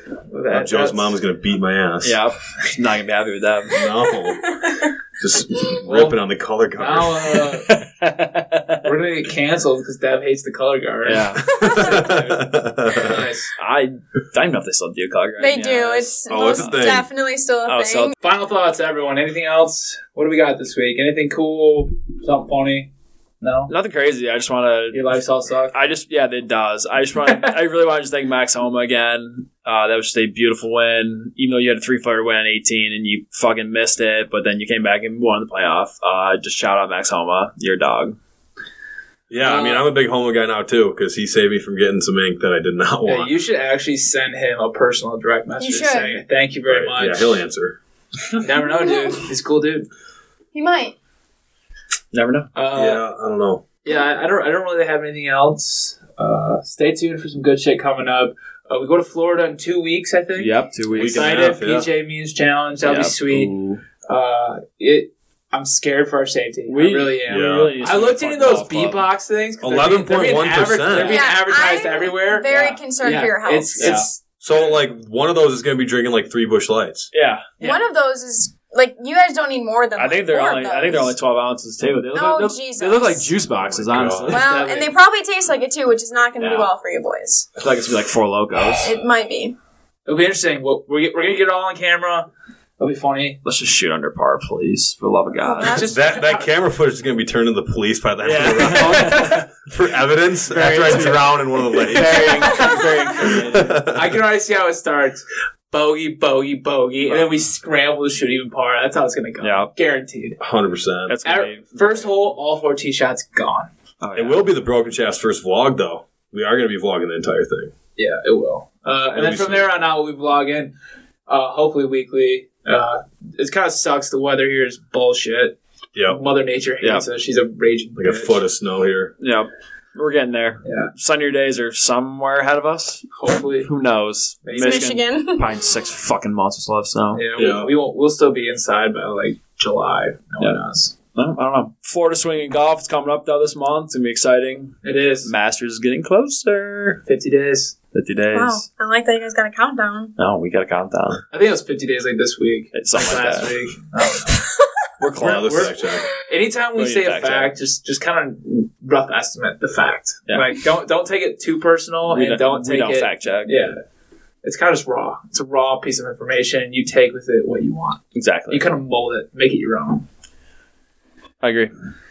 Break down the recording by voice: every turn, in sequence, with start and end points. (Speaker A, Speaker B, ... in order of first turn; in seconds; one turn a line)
Speaker A: 0.3-1.2
Speaker B: 0.5-2.2
Speaker C: 2.0-3.9
Speaker B: 3.7-4.7
Speaker D: 4.4-4.9
Speaker B: 5.2-7.5
Speaker A: 5.8-6.2
Speaker A: 6.8-7.7
Speaker C: 7.6-8.9
Speaker A: 8.8-13.5
Speaker C: 11.0-11.4
Speaker B: 11.4-13.3
Speaker D: 11.5-12.1
Speaker C: 13.6-16.8
Speaker D: 15.4-18.1
Speaker B: 16.3-17.1
Speaker C: 17.6-18.1
Speaker A: 18.2-23.7
Speaker C: 23.7-25.0
Speaker A: 24.9-25.8
Speaker C: 25.7-38.2
Speaker A: 27.2-27.5
Speaker B: 39.3-43.3
Speaker A: 39.4-39.9
Speaker A: 43.0-47.4
Speaker D: 45.6-46.2
Speaker B: 46.7-47.8
Speaker A: 48.4-49.9
Speaker D: 48.7-49.3
Speaker D: 50.5-50.9
Speaker C: 52.1-52.5
Speaker A: 52.5-53.0
Speaker B: 52.7-53.6
Speaker A: 53.9-63.5
Speaker C: 60.4-61.4
Speaker B: 61.0-61.9
Speaker C: 62.8-63.8
Speaker A: 64.0-74.8
Speaker C: 66.7-69.0
Speaker B: 67.3-67.7
Speaker B: 69.6-71.2
Speaker D: 70.9-74.0
Speaker C: 73.8-74.1
Speaker B: 74.4-77.1
Speaker C: 77.1-77.5
Speaker A: 77.6-77.8
Speaker D: 77.6-81.1
Speaker C: 79.9-84.4
Speaker D: 82.1-83.3
Speaker B: 83.6-84.4
Speaker A: 84.3-84.9
Speaker D: 84.3-87.5
Speaker C: 86.4-86.7
Speaker C: 87.6-88.9
Speaker D: 88.8-89.5
Speaker A: 90.0-92.3
Speaker A: 92.8-93.4
Speaker C: 93.4-95.8
Speaker D: 95.4-96.1
Speaker A: 95.6-96.5
Speaker B: 95.8-102.3
Speaker C: 98.2-99.5
Speaker A: 98.6-99.3
Speaker C: 100.4-103.8
Speaker D: 102.5-102.8
Speaker B: 103.2-104.2
Speaker A: 103.9-110.4
Speaker C: 109.4-109.7
Speaker B: 110.4-111.2
Speaker C: 111.1-112.1
Speaker A: 111.2-113.7
Speaker C: 114.0-114.4
Speaker B: 114.1-117.7
Speaker A: 118.0-120.7
Speaker B: 119.1-119.7
Speaker A: 121.3-125.5
Speaker A: 126.1-128.4
Speaker B: 128.0-129.1
Speaker C: 129.2-133.1
Speaker A: 130.6-130.9
Speaker A: 133.2-133.7
Speaker C: 133.6-137.2
Speaker A: 134.4-134.9
Speaker D: 134.6-135.5
Speaker A: 137.1-140.9
Speaker B: 137.3-137.7
Speaker C: 141.1-147.0
Speaker A: 144.8-145.3
Speaker A: 147.1-147.7
Speaker C: 147.9-148.6
Speaker D: 148.3-150.1
Speaker C: 150.2-151.2
Speaker A: 151.3-154.5
Speaker C: 152.7-153.5
Speaker C: 155.0-155.7
Speaker B: 155.2-156.1
Speaker A: 155.2-163.7
Speaker C: 156.8-157.5
Speaker C: 162.1-163.7
Speaker A: 164.4-170.0
Speaker C: 168.1-168.6
Speaker C: 171.4-171.7